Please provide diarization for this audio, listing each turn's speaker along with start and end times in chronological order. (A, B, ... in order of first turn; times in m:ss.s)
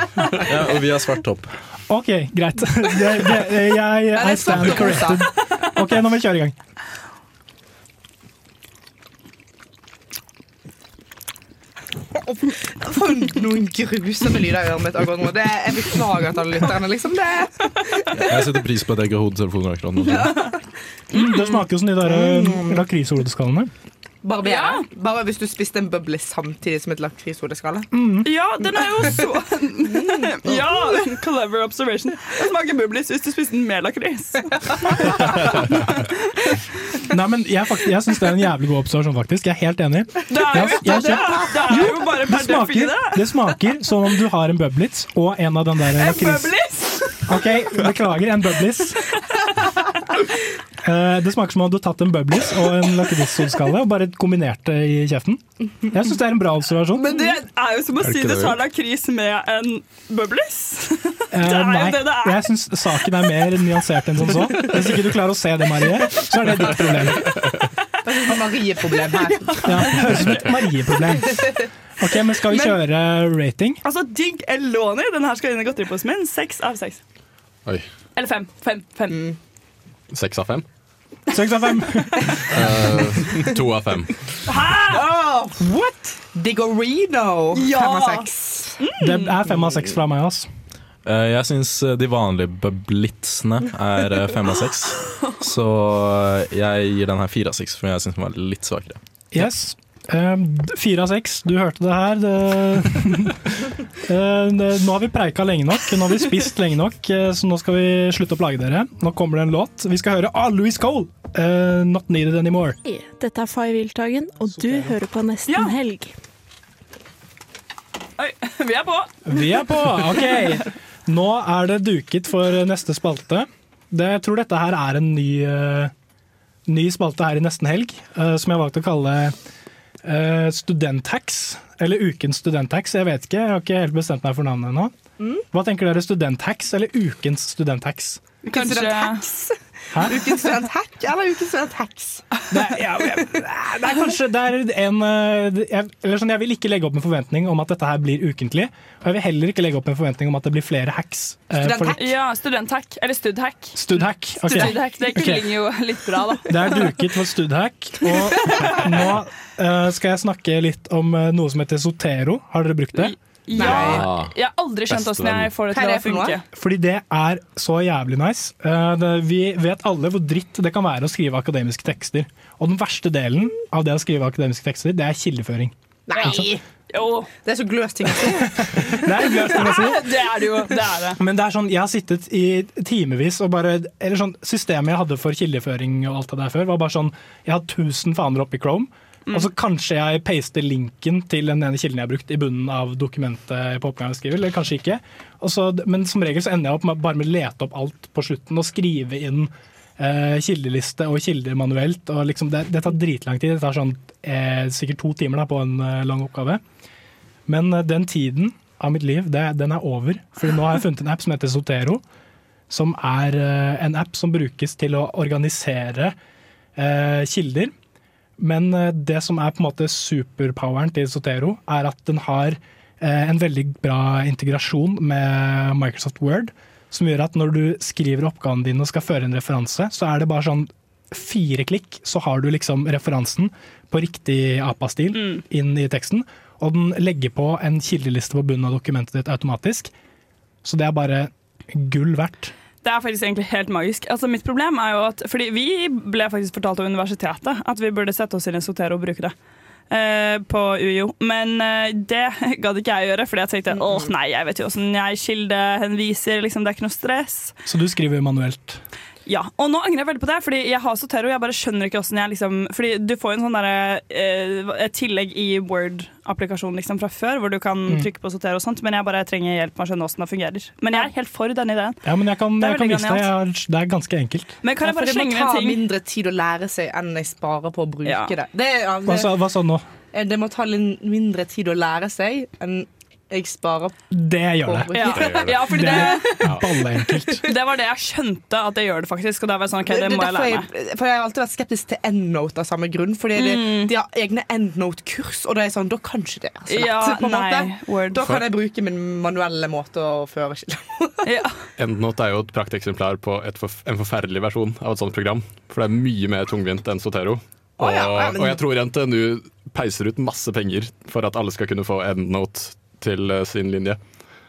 0:00.5-0:01.5 A
0:01.9-0:06.6 B
0:04.2-0:05.3 C
0:12.4-0:18.3 C
0:18.2-0:20.5 A
0:20.0-0:20.6 C
0:20.0-0:20.5 D
0:21.1-0:21.6 D
0:21.1-0:23.7 B
0:22.0-0:22.8 C
0:24.2-0:27.9 C
0:24.4-0:24.9 D
0:27.9-0:28.3 B
0:28.2-0:36.5 D
0:29.8-0:31.0 C
0:37.1-0:46.5 B
0:40.3-0:43.3 D
0:40.8-0:41.8 C
0:46.0-0:47.3 D
0:47.3-0:49.1 B
0:50.8-0:57.1 B
0:57.0-1:02.5 D
0:58.0-0:58.6 E
1:01.3-1:07.5 B
1:03.0-1:03.3 D
1:07.3-1:07.6 E
1:08.0-1:10.1 C
1:09.1-1:10.4 D
1:09.6-1:13.8 B
1:11.3-1:11.6 C
1:12.5-1:12.8 C
1:13.8-1:17.0 D
1:18.2-1:19.3 D
1:20.1-1:20.6 E
1:21.3-1:22.6 B
1:22.5-1:24.3 E
1:24.5-1:25.2 D
1:24.9-1:28.8 C
1:27.5-1:28.3 D
1:28.8-1:29.4 D
1:29.0-1:30.5 B
1:31.0-1:39.0 A
1:35.0-1:35.3 D
1:39.3-1:52.8 B
1:52.8-1:56.2 F
1:54.4-1:55.0 B
1:55.5-1:55.8 D
1:58.2-2:00.7 D
1:59.3-2:05.9 B
2:06.7-2:09.4 B
2:10.0-2:14.9 B
2:15.2-2:15.4 C
2:15.5-2:18.2 B
2:18.5-2:22.3 C
2:18.5-2:19.4 D
2:19.9-2:20.2 B
2:22.5-2:32.0 B
2:31.6-2:32.2 C
2:32.0-2:36.9 D
2:33.8-2:35.5 B
2:34.5-2:34.8 C
2:36.5-2:43.2 B
2:43.0-2:46.4 D
2:43.5-2:44.4 E
2:43.6-2:44.1 C
2:44.9-2:45.5 E
2:45.7-2:46.4 C
2:46.5-2:55.7 B
2:56.1-2:56.6 C
2:56.2-2:57.3 D
2:57.4-3:00.0 C
2:58.6-3:00.0 B
2:59.5-3:01.2 D
3:01.2-3:26.6 B
3:27.5-3:32.0 B
3:32.7-3:36.2 B
3:36.8-3:37.7 B
3:38.4-3:59.9 B
3:55.1-3:55.4 D
4:00.6-4:02.5 B
4:02.8-4:09.3 D
4:09.9-4:17.6 D
4:13.7-4:14.1 C
4:17.7-4:18.8 B
4:19.3-4:32.0 D
4:32.0-4:34.5 B
4:32.6-4:33.3 D
4:34.6-4:35.8 D
4:34.8-4:39.4 C
4:38.0-4:38.4 D
4:39.1-4:39.8 B
4:40.1-4:44.0 C
4:44.1-4:47.4 B
4:44.6-4:46.4 C
4:44.9-4:46.4 D
4:45.1-4:46.7 E
4:47.4-4:50.7 D
4:49.8-5:01.2 C
4:53.3-4:53.9 D
4:56.7-4:58.4 D
5:01.2-5:01.6 D
5:01.8-5:14.0 E
5:07.8-5:08.6 C